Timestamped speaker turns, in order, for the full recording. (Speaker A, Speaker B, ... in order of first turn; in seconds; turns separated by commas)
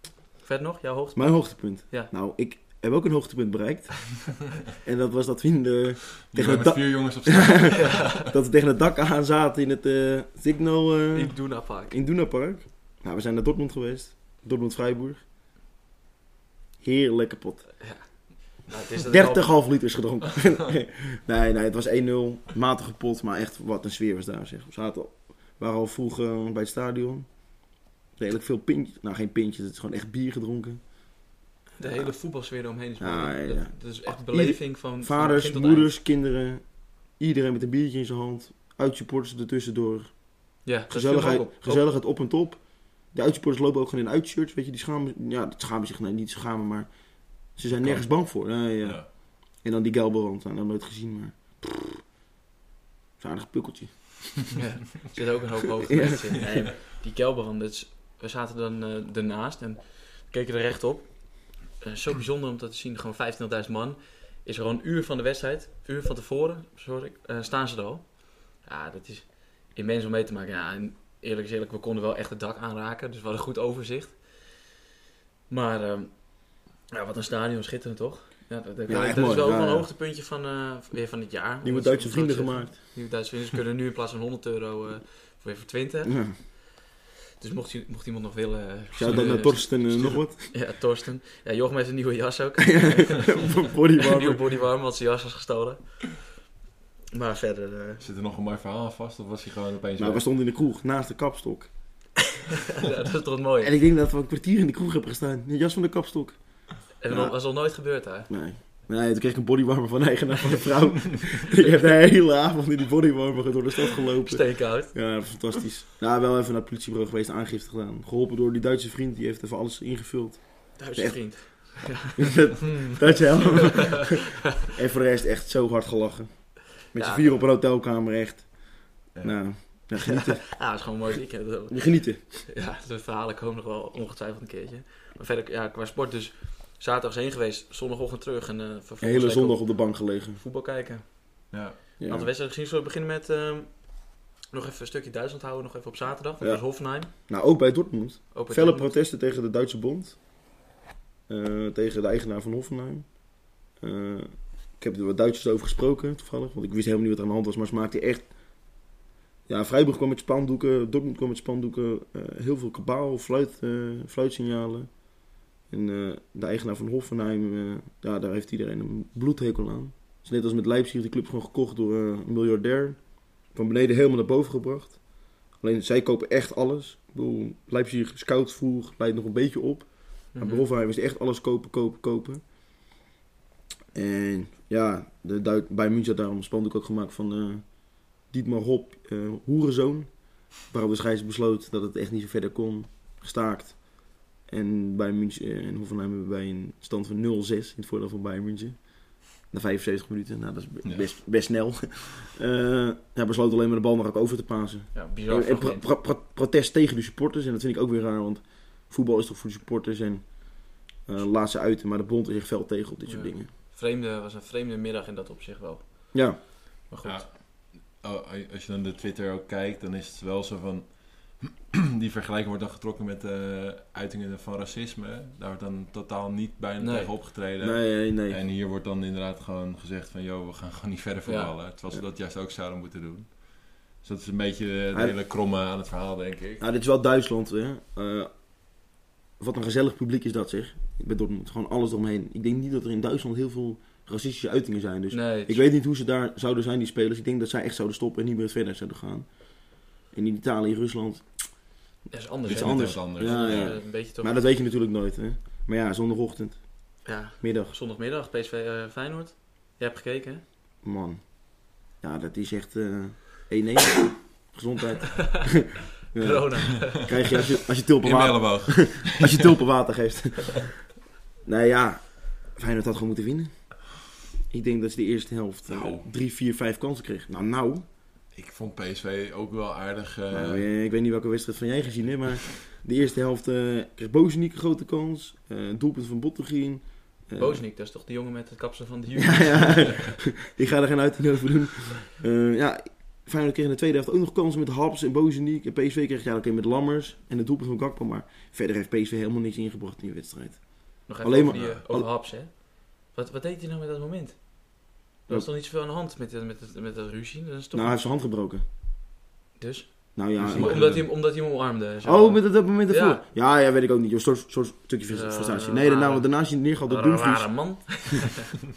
Speaker A: 0.4-2.1, Speaker B: 1.1-15.2, Speaker C: 6.2-8.3, Speaker A: 7.8-8.2, Speaker A: 11.1-11.9, Speaker B: 16.8-17.8, Speaker A: 17.8-19.5, Speaker B: 19.1-27.3, Speaker B: 28.2-30.8, Speaker A: 31.8-35.9, Speaker B: 31.8-32.1, Speaker B: 33.0-36.6, Speaker B: 37.2-40.2, Speaker A: 40.6-41.9, Speaker B: 40.9-46.9, Speaker B: 47.5-52.0, Speaker C: 47.7-49.1, Speaker B: 53.2-54.3, Speaker A: 54.5-74.6, Speaker B: 55.9-56.7, Speaker A: 75.5-86.6, Speaker B: 78.9-79.9, Speaker B: 81.6-82.8, Speaker B: 86.0-86.3, Speaker A: 87.4-96.3, Speaker B: 88.9-90.5, Speaker B: 92.6-94.4, Speaker A: 97.1-98.0, Speaker C: 98.0-100.2, Speaker B: 100.0-101.7, Speaker A: 102.7-103.8, Speaker B: 103.6-106.4, Speaker A: 107.0-108.3, Speaker B: 107.1-107.3, Speaker B: 108.3-128.5, Speaker A: 114.3-115.2, Speaker A: 120.8-124.1, Speaker A: 127.0-127.5, Speaker B: 129.1-130.5, Speaker C: 129.2-129.4, Speaker A: 130.0-147.1, Speaker B: 131.7-132.4, Speaker B: 139.0-140.4, Speaker C: 141.5-141.8, Speaker B: 142.0-142.3, Speaker B: 146.4-150.2, Speaker A: 148.3-148.9, Speaker B: 151.3-158.3, Speaker B: 159.5-164.9, Speaker B: 165.7-175.0, Speaker B: 175.6-182.4, Speaker A: 180.3-180.7, Speaker B: 183.9-187.7, Speaker B: 188.2-213.5, Speaker A: 204.9-205.9, Speaker A: 213.1-216.3, Speaker B: 216.1-216.4, Speaker A: 216.9-217.3, Speaker C: 217.0-236.6, Speaker A: 226.8-227.1, Speaker B: 227.6-228.4, Speaker A: 231.3-231.5, Speaker B: 236.6-238.3, Speaker B: 239.4-249.5, Speaker A: 245.1-245.6, Speaker B: 250.0-251.3, Speaker A: 252.1-254.4, Speaker C: 252.5-253.8, Speaker B: 252.5-257.7, Speaker A: 257.1-260.4, Speaker B: 260.8-261.4, Speaker B: 261.9-270.8, Speaker A: 266.2-267.4, Speaker C: 268.0-269.6, Speaker B: 271.4-273.7, Speaker B: 274.5-277.9, Speaker C: 275.7-276.1, Speaker C: 278.4-280.7, Speaker B: 280.3-287.6, Speaker A: 287.4-290.0, Speaker B: 289.2-302.1, Speaker A: 301.1-304.6, Speaker C: 301.5-301.8, Speaker A: 305.3-308.0, Speaker B: 307.7-308.6, Speaker A: 309.6-313.2, Speaker B: 310.1-311.0, Speaker C: 310.4-311.1, Speaker B: 312.0-317.5, Speaker A: 315.1-316.3, Speaker A: 316.9-318.6